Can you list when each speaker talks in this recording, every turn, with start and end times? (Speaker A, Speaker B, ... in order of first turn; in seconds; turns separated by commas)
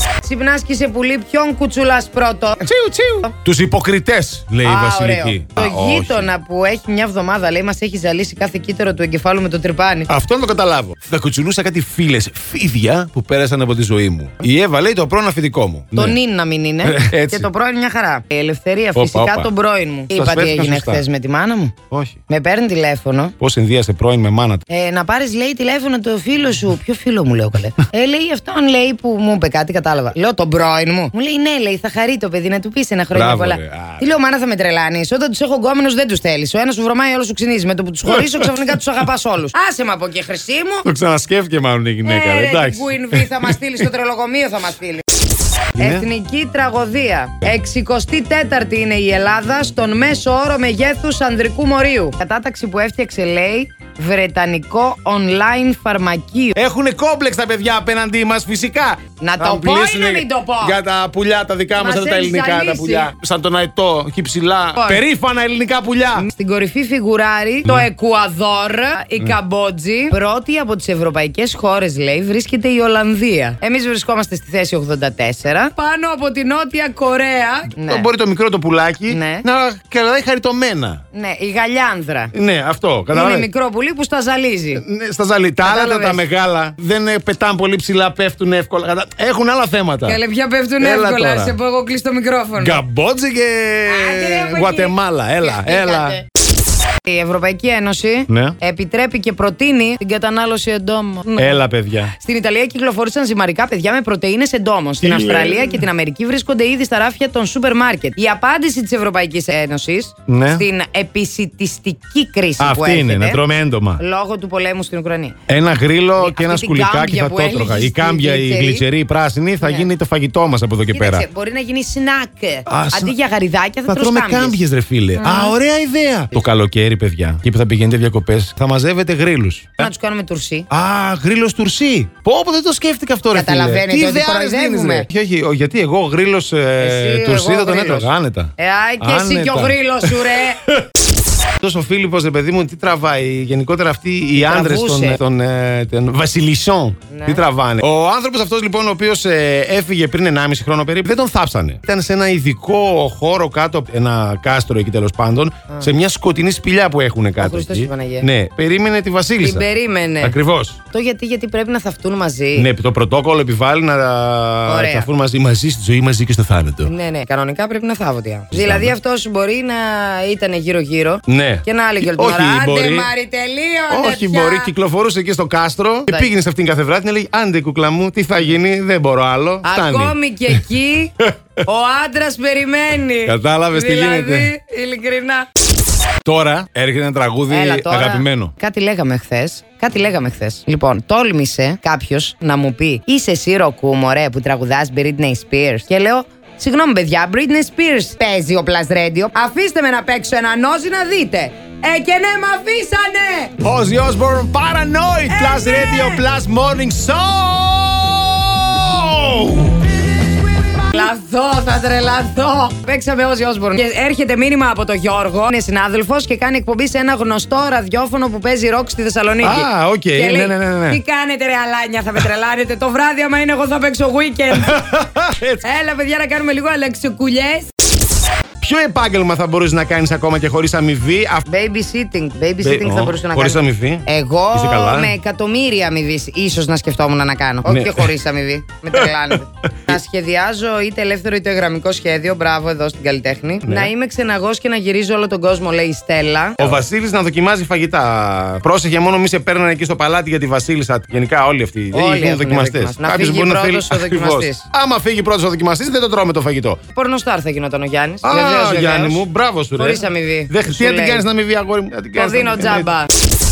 Speaker A: 0.2-2.7, Speaker B: 2.6-6.3, Speaker A: 4.6-10.1, Speaker B: 10.1-16.2, Speaker A: 15.9-21.7, Speaker B: 16.8-17.5, Speaker B: 18.9-19.5, Speaker B: 20.1-21.0, Speaker B: 21.9-22.2, Speaker A: 22.3-23.3, Speaker B: 23.4-24.6, Speaker A: 24.7-40.8, Speaker B: 33.1-34.0, Speaker B: 38.1-38.6, Speaker B: 40.8-43.9, Speaker A: 42.0-45.0, Speaker B: 45.7-46.1, Speaker A: 45.8-56.6, Speaker B: 56.5-66.3, Speaker A: 59.2-60.8, Speaker A: 61.8-63.1, Speaker A: 64.8-65.0, Speaker A: 66.2-78.1, Speaker B: 77.8-81.0, Speaker A: 79.1-79.4, Speaker A: 81.1-82.3, Speaker B: 82.3-83.5, Speaker A: 83.1-84.8, Speaker B: 84.7-90.2, Speaker A: 85.6-86.2, Speaker A: 90.0-92.8, Speaker B: 90.8-91.5, Speaker B: 92.6-96.2, Speaker A: 93.9-96.2, Speaker A: 97.1-101.6, Speaker B: 98.3-98.5, Speaker B: 101.3-102.1, Speaker A: 102.1-113.4, Speaker B: 105.0-105.8, Speaker B: 110.3-110.7, Speaker B: 112.6-114.0, Speaker A: 114.0-115.3, Speaker B: 115.5-121.3, Speaker A: 116.2-118.8, Speaker A: 119.6-119.9, Speaker A: 120.9-124.6, Speaker B: 122.7-123.1, Speaker B: 123.9-129.9, Speaker A: 125.2-125.5, Speaker A: 129.8-130.7, Speaker B: 130.7-140.9, Speaker A: 133.3-135.1, Speaker A: 136.8-140.6, Speaker B: 141.6-159.7, Speaker A: 144.3-145.2, Speaker A: 147.1-147.4, Speaker A: 157.4-158.3, Speaker A: 159.4-160.3, Speaker B: 160.2-160.8, Speaker A: 160.9-162.7, Speaker B: 162.6-166.9, Speaker A: 164.7-165.1, Speaker A: 166.8-174.7, Speaker B: 168.5-168.9, Speaker B: 171.3-173.1, Speaker B: 173.9-180.6, Speaker A: 179.6-185.5, Speaker B: 183.2-184.5, Speaker B: 186.2-188.5, Speaker A: 187.5-203.5, Speaker B: 203.6-209.9, Speaker A: 205.3-206.2, Speaker A: 210.5-224.8, Speaker B: 219.4-221.0, Speaker B: 224.5-225.6, Speaker A: 225.6-227.7, Speaker B: 228.6-231.4, Speaker A: 231.5-246.8, Speaker B: 232.6-235.2, Speaker B: 237.6-238.1, Speaker B: 238.9-240.0, Speaker B: 243.6-243.9, Speaker B: 246.6-256.8, Speaker A: 251.9-254.7, Speaker A: 256.9-259.2, Speaker B: 258.2-262.9, Speaker A: 259.8-261.2, Speaker A: 262.1-263.1